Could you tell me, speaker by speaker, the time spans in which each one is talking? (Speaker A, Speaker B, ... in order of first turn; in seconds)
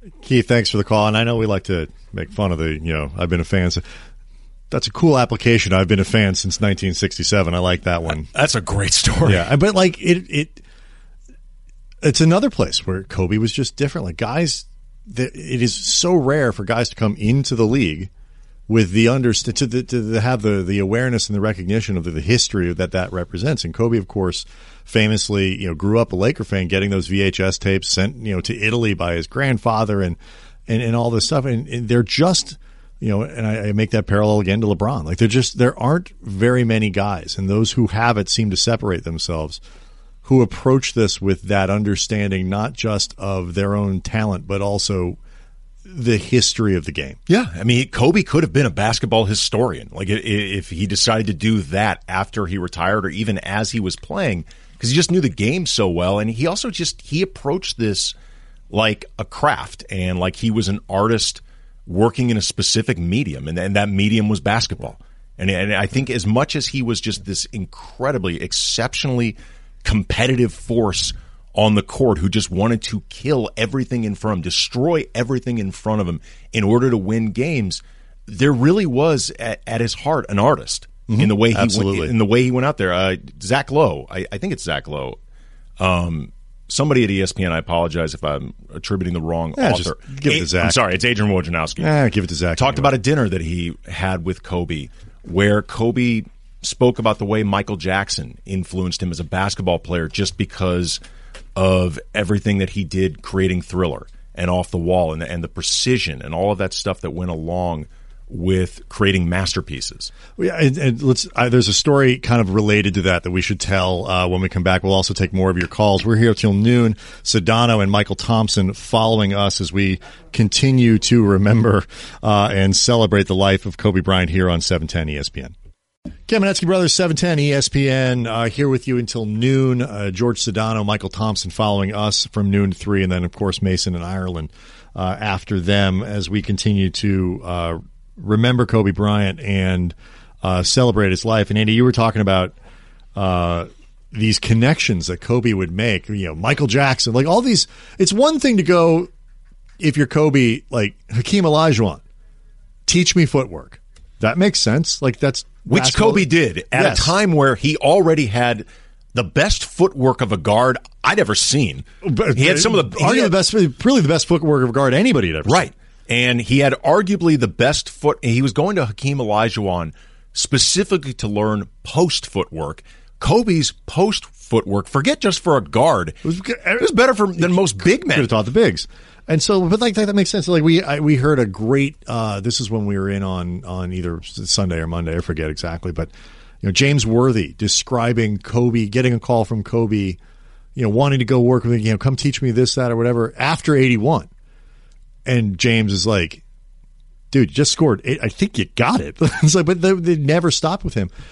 Speaker A: 0.2-3.8, 4.7-8.3, 9.2-10.6, 12.0-18.1, 18.7-39.6, 40.2-45.2, 45.9-47.2, 81.1-82.1, 89.6-90.8, 91.8-92.9, 110.4-125.5, 126.3-142.5, 143.2-149.1, 149.8-152.0, 152.9-157.2, 162.0-165.7, 176.2-186.1, 186.6-190.2, 190.8-194.3, 195.3-196.4, 197.3-201.1
Speaker B: 8.1-9.5, 47.3-58.1, 58.7-85.2, 85.8-91.9, 92.6-101.0, 101.5-110.1, 155.7-163.3, 165.4-176.2, 176.8-178.3